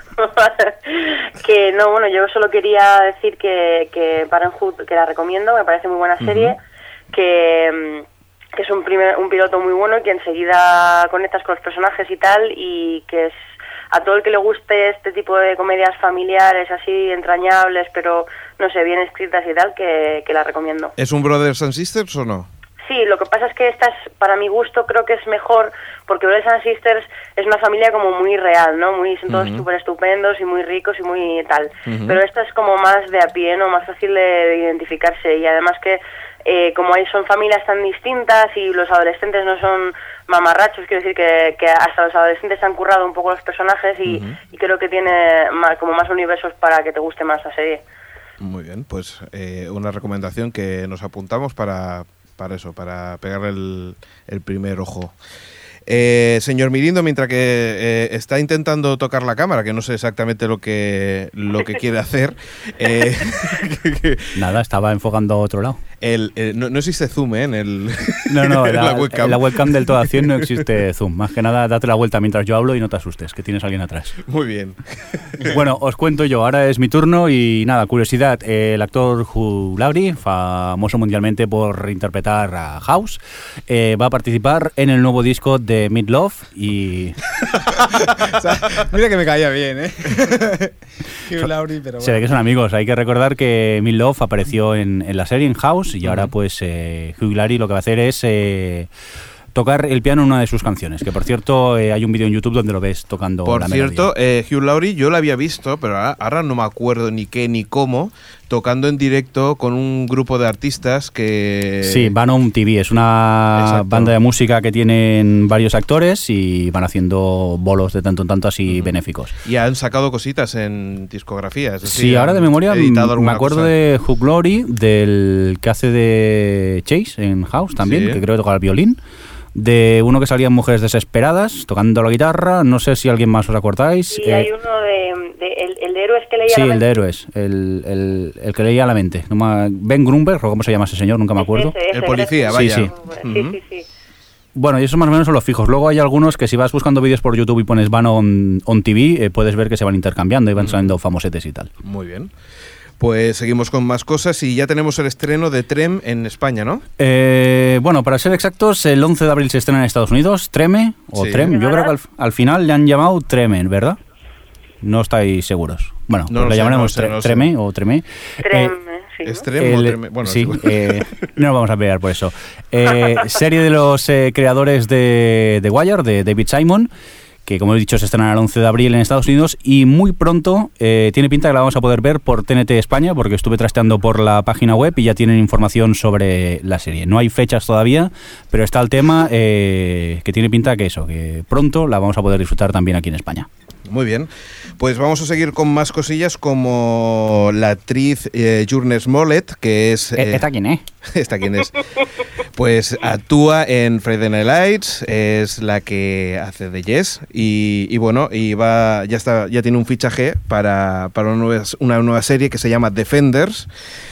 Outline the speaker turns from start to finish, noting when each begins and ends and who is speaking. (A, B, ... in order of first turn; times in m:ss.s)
0:00.2-0:06.6 A
0:06.2-0:06.6 B
0:07.1-0:13.3 A
0:13.9-0:21.0 A
0:21.0-0:22.5 B
0:22.8-0:47.8 A
0:29.3-0:29.6 B
0:31.9-0:32.2 B
0:44.1-0:44.4 B
0:48.4-0:55.1 B
0:55.9-1:04.3 B
1:04.4-1:05.8 C
1:06.0-1:10.5 B
1:08.3-1:14.2 C
1:14.3-1:15.5 B
1:15.4-1:27.2 C
1:27.6-1:30.7 D
1:31.3-1:32.2 D
1:32.0-1:38.9 C
1:36.0-1:36.3 B
1:39.5-1:44.1 C
1:43.4-1:52.1 B
1:51.8-1:59.3 C
1:53.6-1:54.1 B
1:59.4-2:03.7 B
2:01.8-2:09.0 C
2:07.8-2:08.2 B
2:09.6-2:14.5 C
2:14.1-2:17.0 A
2:16.5-2:21.8 C
2:21.4-2:23.8 A
2:21.9-2:23.6 B
2:22.5-2:22.9 C
2:24.6-2:31.7 C
2:30.6-2:30.9 B
2:31.8-2:32.3 B
2:33.0-2:36.8 B
2:37.0-2:44.0 C
2:41.2-2:41.5 B
2:41.5-2:41.9 A
2:44.8-2:48.7 C
2:46.3-2:47.5 B
2:48.4-2:49.5 A
2:49.2-2:51.0 B
2:49.6-2:56.9 C
2:57.5-3:13.5 C
3:13.9-3:20.4 B
3:20.2-3:20.8 C
3:21.1-3:21.8 B
3:22.6-3:33.7 B